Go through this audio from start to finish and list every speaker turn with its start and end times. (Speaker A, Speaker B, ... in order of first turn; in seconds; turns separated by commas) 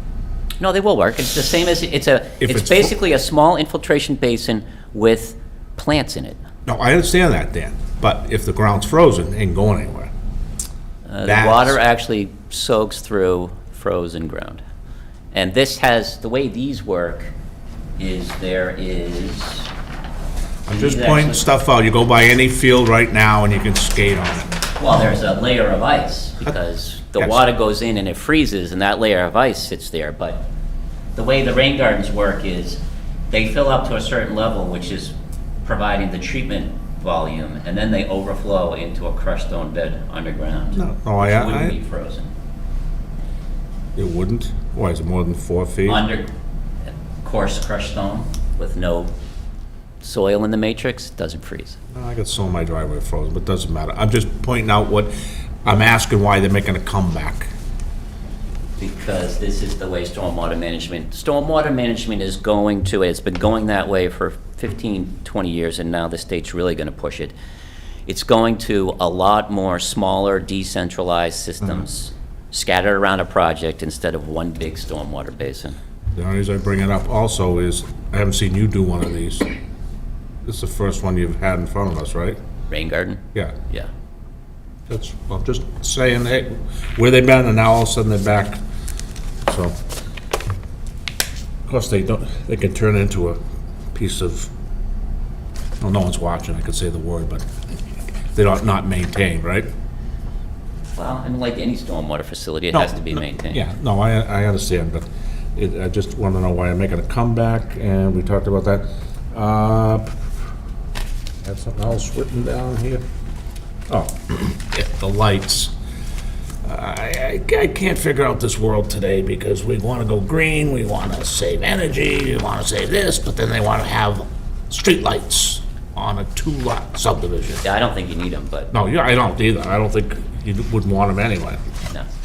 Speaker A: 0.6-6.4, Speaker B: 2.4-3.0, Speaker B: 6.7-10.1, Speaker A: 11.1-14.6, Speaker B: 11.2-11.8, Speaker A: 15.3-17.3, Speaker A: 18.0-19.7, Speaker B: 20.7-24.5, Speaker A: 20.7-21.4, Speaker A: 24.8-30.4, Speaker A: 31.1-42.3, Speaker B: 40.7-41.8, Speaker B: 44.0-46.0, Speaker A: 45.8-46.3, Speaker A: 47.2-49.1, Speaker A: 50.0-51.8, Speaker B: 51.9-55.1, Speaker B: 55.6-57.5, Speaker A: 58.8-67.3, Speaker A: 68.1-75.8, Speaker B: 76.2-79.5, Speaker B: 80.5-82.4, Speaker A: 82.7-83.9, Speaker B: 84.9-88.6, Speaker B: 89.5-89.8, Speaker B: 91.7-93.4, Speaker B: 93.9-94.5, Speaker B: 95.8-97.4, Speaker B: 98.3-99.7, Speaker A: 101.0-103.6, Speaker B: 102.7-110.1, Speaker B: 111.4-113.0, Speaker B: 113.9-115.7, Speaker B: 116.6-127.6, Speaker A: 127.6-128.7, Speaker B: 128.7-131.6